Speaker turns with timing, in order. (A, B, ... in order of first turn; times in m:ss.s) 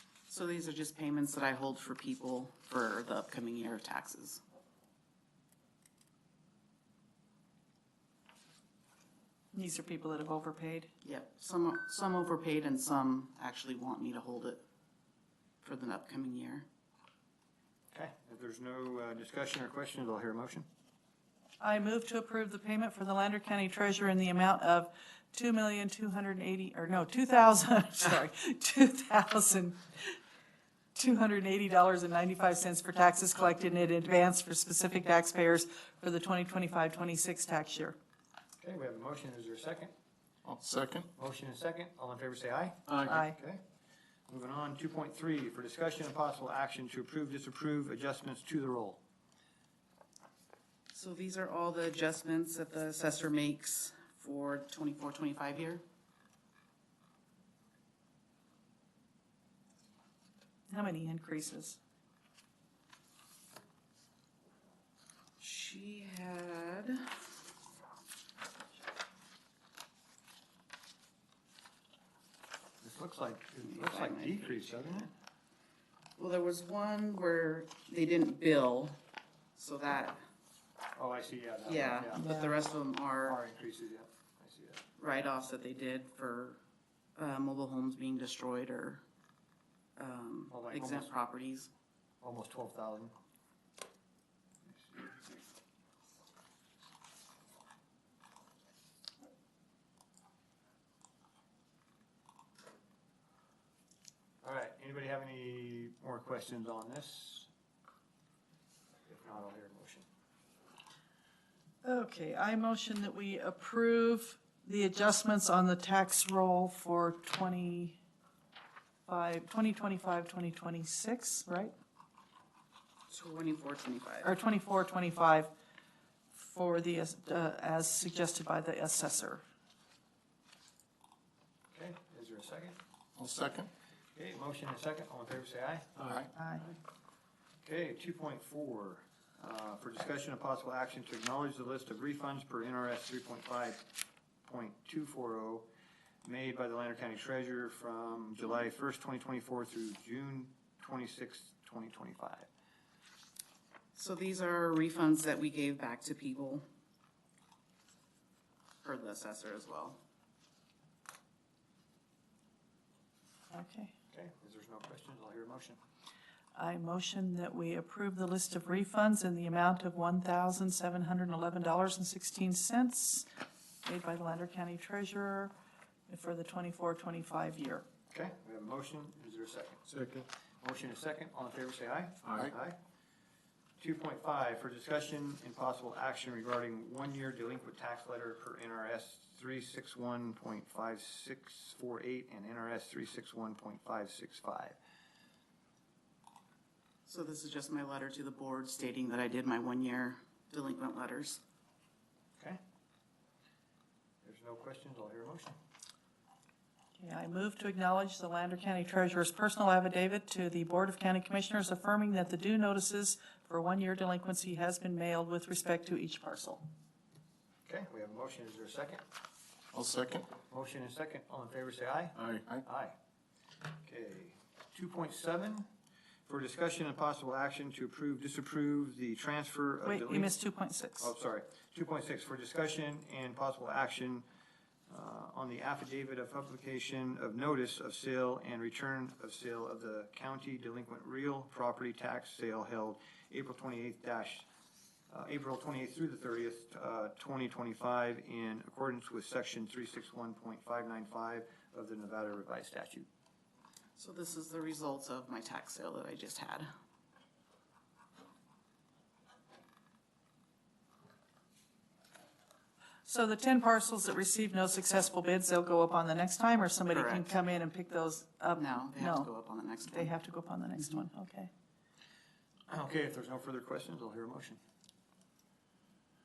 0:00.3-0:04.4 A
0:09.5-0:10.9 B
0:11.0-0:14.6 A
0:15.6-0:16.6 A
0:17.9-0:20.6 C
0:21.6-0:30.2 B
0:30.9-0:38.0 B
0:38.6-0:39.9 C
0:40.4-0:41.1 D
0:41.2-0:43.6 C
0:42.9-0:43.1 D
0:43.0-0:43.4 B
0:44.3-0:49.0 C
0:50.9-0:55.8 A
1:00.7-1:01.8 B
1:05.4-1:07.0 A
1:12.8-1:15.1 C
1:13.6-1:14.4 A
1:16.2-1:19.0 A
1:19.6-1:20.2 A
1:20.9-1:22.3 C
1:21.6-1:23.4 A
1:23.2-1:24.8 C
1:25.0-1:26.6 A
1:27.2-1:29.0 A
1:30.0-1:31.7 A
1:30.5-1:31.1 C
1:32.2-1:33.1 C
1:44.4-1:47.5 C
1:49.1-1:50.0 C
1:51.8-1:58.0 B
1:59.1-2:01.7 B
2:03.1-2:04.3 A
2:04.2-2:05.5 B
2:06.3-2:09.4 B
2:11.7-2:12.8 C
2:13.2-2:13.7 D
2:14.1-2:16.1 C
2:16.0-2:16.3 D
2:16.3-2:16.7 B
2:17.6-2:23.8 C
2:24.4-2:25.7 C
2:26.2-2:32.5 C
2:33.9-2:36.6 A
2:38.8-2:40.0 A
2:43.5-2:43.9 B
2:44.1-2:45.8 C
2:46.5-2:53.3 B
2:53.8-2:55.5 B
2:56.1-2:57.8 B
2:58.1-2:59.8 C
2:59.9-3:00.2 D
3:00.6-3:02.8 C
3:02.2-3:02.5 D
3:03.8-3:14.8 C
3:17.0-3:21.4 A
3:24.2-3:25.5 C
3:27.0-3:36.6 B
3:37.6-3:39.0 C
3:39.7-3:40.3 D
3:40.5-3:43.0 C
3:42.2-3:42.6 D
3:43.8-3:45.6 C
3:46.2-3:50.3 C
3:49.8-3:51.1 B
3:51.0-3:54.2 C
3:54.9-4:04.5 C
4:05.1-4:13.1 C
4:14.0-4:16.7 A
4:23.0-4:29.3 B
4:26.9-4:27.3 A
4:28.6-4:30.1 A
4:29.8-4:31.5 B
4:32.7-4:34.6 C